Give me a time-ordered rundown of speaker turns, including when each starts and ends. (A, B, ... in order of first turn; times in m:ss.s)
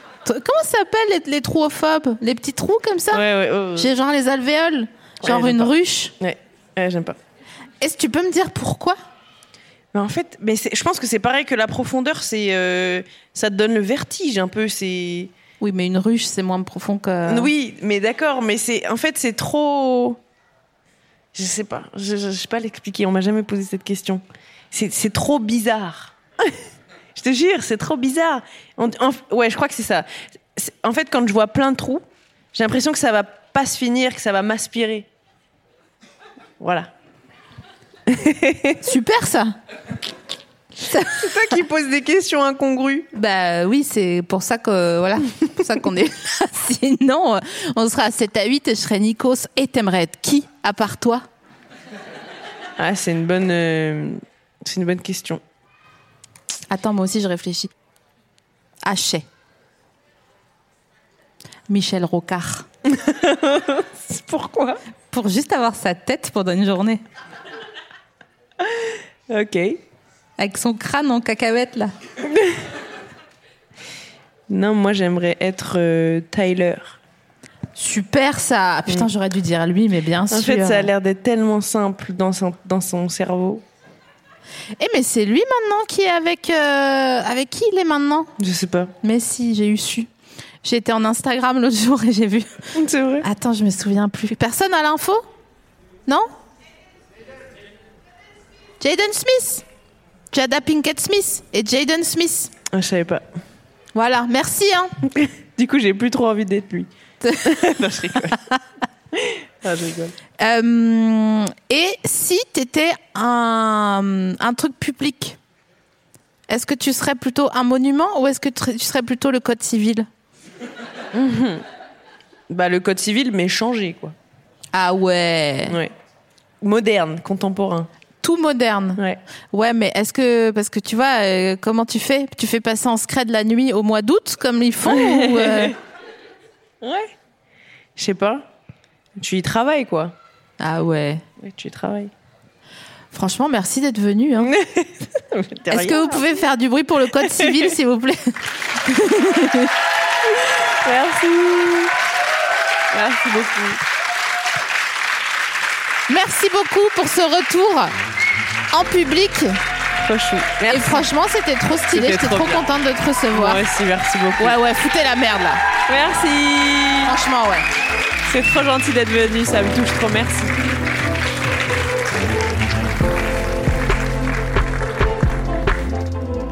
0:00.2-0:03.2 A
0:03.1-0:03.9 B
0:03.8-0:06.1 A
0:05.2-0:07.2 B
0:07.8-0:09.0 A
0:09.9-0:15.3 B
0:15.6-0:17.5 A
0:17.3-0:20.2 B
0:21.3-0:26.6 B
0:27.2-0:35.1 B
0:36.6-0:36.9 B
0:38.1-0:38.8 B
0:38.8-0:39.6 A
0:40.9-0:41.4 A
0:41.1-0:43.1 B
0:43.1-0:51.2 A
0:52.8-0:55.4 B
0:56.7-0:57.7 A
0:58.8-0:59.2 A
1:01.7-1:02.7 A
1:02.8-1:04.8 B
1:05.1-1:07.0 A
1:08.6-1:09.8 B
1:10.4-1:11.9 A
1:12.2-1:12.6 B
1:14.5-1:17.0 B
1:17.8-1:20.9 A
1:20.3-1:23.6 B
1:24.8-1:28.3 A
1:28.4-1:28.9 B
1:29.0-1:30.1 A
1:30.6-1:35.2 A
1:32.7-1:33.3 B
1:38.8-1:39.6 A
1:40.3-1:42.5 A
1:42.7-1:43.3 B
1:44.0-1:44.9 A
1:45.1-1:46.9 B
1:47.2-1:47.6 A
1:47.4-1:48.4 B
1:49.1-1:50.2 B
1:50.4-1:55.4 A
1:56.5-2:00.1 A
2:01.1-2:01.6 B
2:02.5-2:04.2 B
2:04.7-2:05.8 A
2:05.7-2:05.9 B
2:06.6-2:07.9 B
2:08.2-2:15.8 A
2:14.8-2:15.8 B
2:16.8-2:17.1 B
2:18.0-2:18.5 B
2:19.2-2:20.2 B
2:20.6-2:21.2 A
2:21.4-2:22.1 B
2:23.1-2:24.6 A
2:24.4-2:26.4 B
2:25.7-2:29.7 A
2:27.2-2:27.8 B
2:30.2-2:32.0 B
2:32.9-2:33.8 B
2:36.1-2:37.9 A
2:38.7-2:39.6 A
2:40.0-2:41.1 B
2:40.7-2:43.6 A
2:41.9-2:42.7 B
2:43.3-2:44.6 B
2:44.4-2:45.6 A
2:45.9-2:47.1 B
2:47.0-2:47.7 A
2:48.2-2:50.6 B